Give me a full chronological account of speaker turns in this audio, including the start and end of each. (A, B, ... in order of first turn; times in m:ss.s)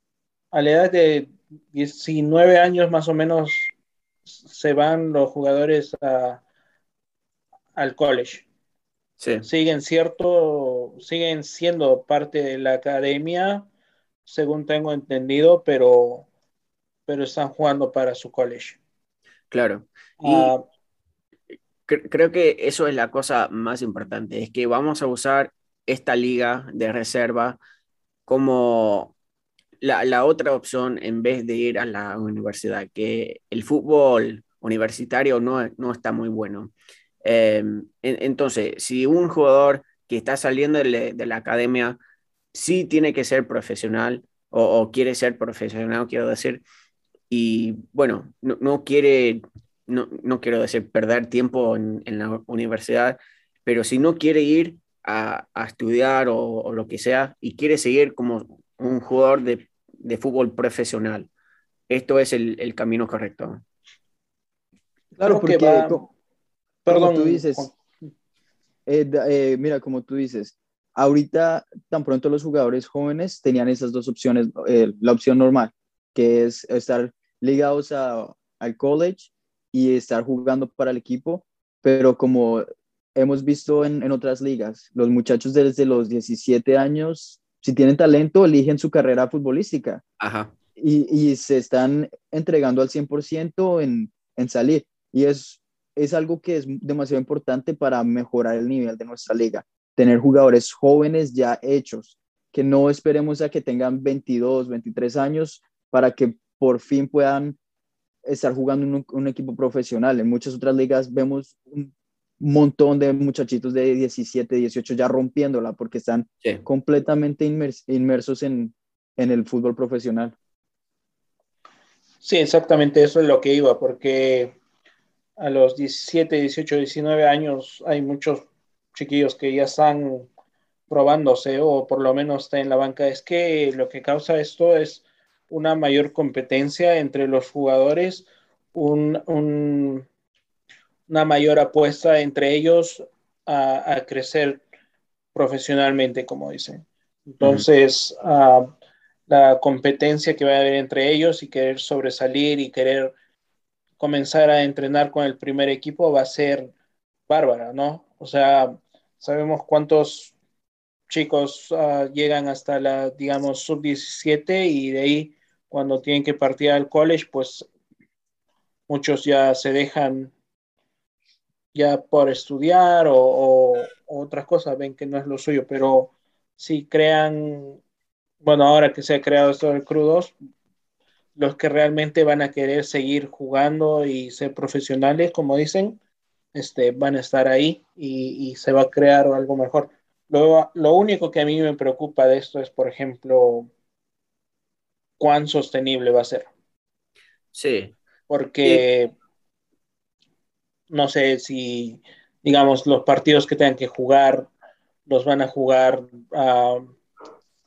0:00.5-0:03.7 A
0:04.4-0:06.4 A
0:07.8-0:08.5 A
0:09.2-0:09.5 B
0:09.4-0:13.7 A
0:14.3-0:16.3 A
0:17.1-0:18.8 A
0:19.5-0:20.5 B
0:20.2-0:20.6 A
0:21.9-0:27.6 B
0:28.3-0:29.1 B
0:29.8-0:36.7 B
0:37.2-0:42.0 B
0:42.5-0:46.6 B
0:47.3-1:01.3 B
1:01.9-1:03.6 B
1:05.2-1:06.0 C
1:05.2-1:06.0 A
1:06.9-1:07.7 A
1:06.9-1:07.7 C
1:08.9-1:30.0 C
1:30.2-1:30.5 B
1:30.8-1:47.6 C
1:48.2-2:00.3 C
2:02.2-2:04.6 A
2:05.4-2:10.3 A
2:10.9-2:20.1 A
2:21.1-2:24.6 A
2:25.3-2:28.7 A
2:27.4-2:27.7 B
2:29.3-2:33.1 A
2:34.0-2:36.7 A
2:37.3-2:40.3 A
2:41.1-2:47.7 A
2:48.9-2:50.3 A
2:51.7-2:57.8 A
2:58.4-3:00.3 A
3:01.4-3:06.0 A
3:06.5-3:13.7 A
3:15.2-3:16.5 A
3:17.5-3:17.9 B
3:18.3-3:19.1 A
3:20.9-3:24.5 A
3:25.1-3:26.9 A